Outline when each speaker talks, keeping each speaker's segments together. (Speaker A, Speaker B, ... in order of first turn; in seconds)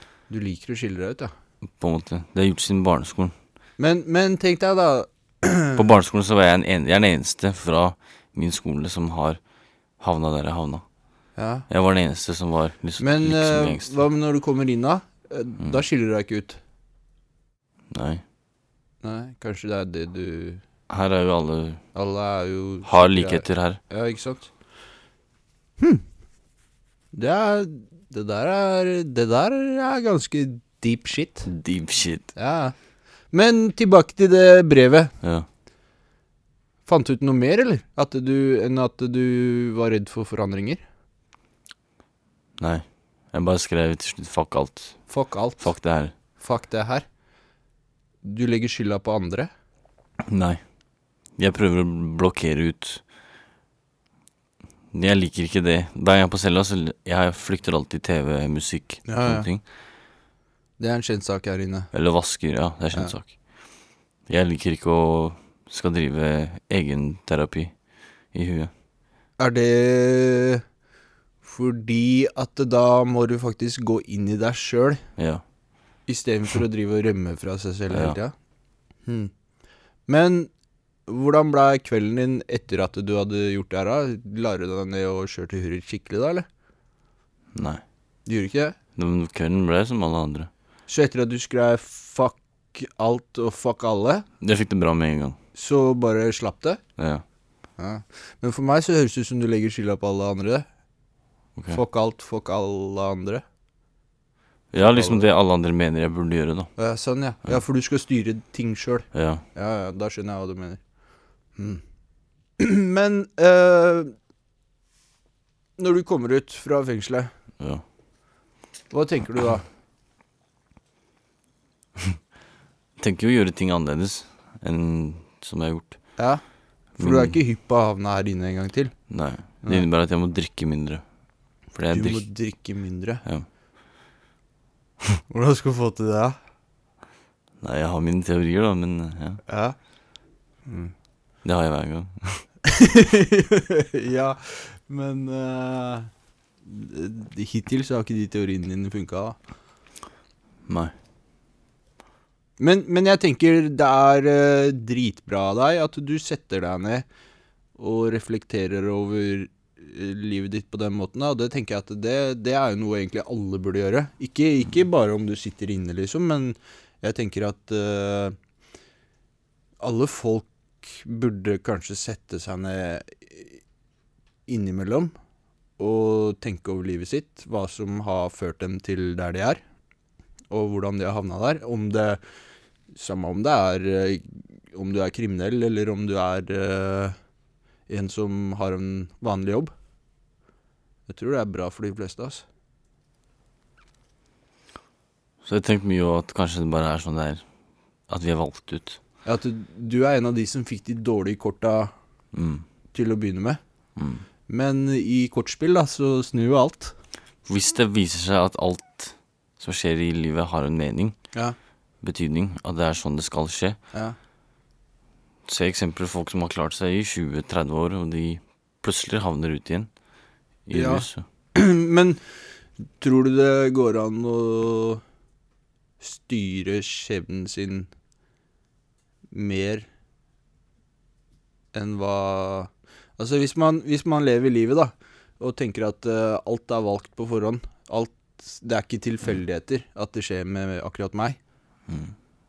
Speaker A: 0.3-1.3, 3.8-5.8, 11.3-11.7, 13.0-16.6, 19.0-20.6, 21.9-24.5, 25.8-26.0, 27.1-31.5, 32.3-32.7, 33.3-35.1, 36.9-40.8, 45.0-47.1, 48.2-49.5, 59.0-59.5, 60.8-61.9, 69.4-70.6, 71.4-75.1, 76.0-78.3, 79.0-79.3, 80.1-80.5, 81.1-86.5, 88.2-88.8, 90.9-94.3, 95.5-96.8, 97.8-100.7, 101.7-103.4, 104.8-105.3, 106.8-110.8, 111.5-111.8, 112.6-114.1, 115.8-117.3, 118.9-119.6, 126.1-129.8, 131.9-133.2, 135.3-136.4, 139.4-139.8, 140.7-140.9, 142.7-146.1, 146.6-149.4, 152.6-157.1, 157.8-168.3, 169.8-173.6, 174.5-175.1, 175.8-179.6, 180.5-182.2, 182.9-187.2, 187.9-189.7, 191.1-192.4, 199.2-201.9, 202.9-203.6, 204.4-206.9, 220.7-222.2, 222.8-225.0, 226.0-227.9, 229.3-229.9, 231.7-241.4
Speaker B: 1.7-3.3, 5.8-9.4, 9.9-10.8, 11.7-14.0, 17.9-18.2, 20.9-21.8, 22.8-23.8, 31.4-32.3, 35.2-35.5, 42.6-46.2, 50.3-50.6, 51.3-53.0, 54.9-59.7, 61.9-68.7, 75.2-75.4, 77.9-78.2, 87.5-87.8, 89.0-90.5, 94.4-95.4, 97.0-97.2, 101.5-101.8, 104.7-106.7, 109.1-109.5, 117.6-117.8, 123.0-126.3, 127.0-127.4, 129.1-131.0, 131.7-132.3, 137.6-139.4, 141.4-142.4, 150.7-150.9, 195.4-197.4, 198.1-199.0, 202.3-202.6, 203.9-204.2, 207.4-211.2, 212.0-213.8, 215.4-220.0, 220.7-221.2, 241.9-242.1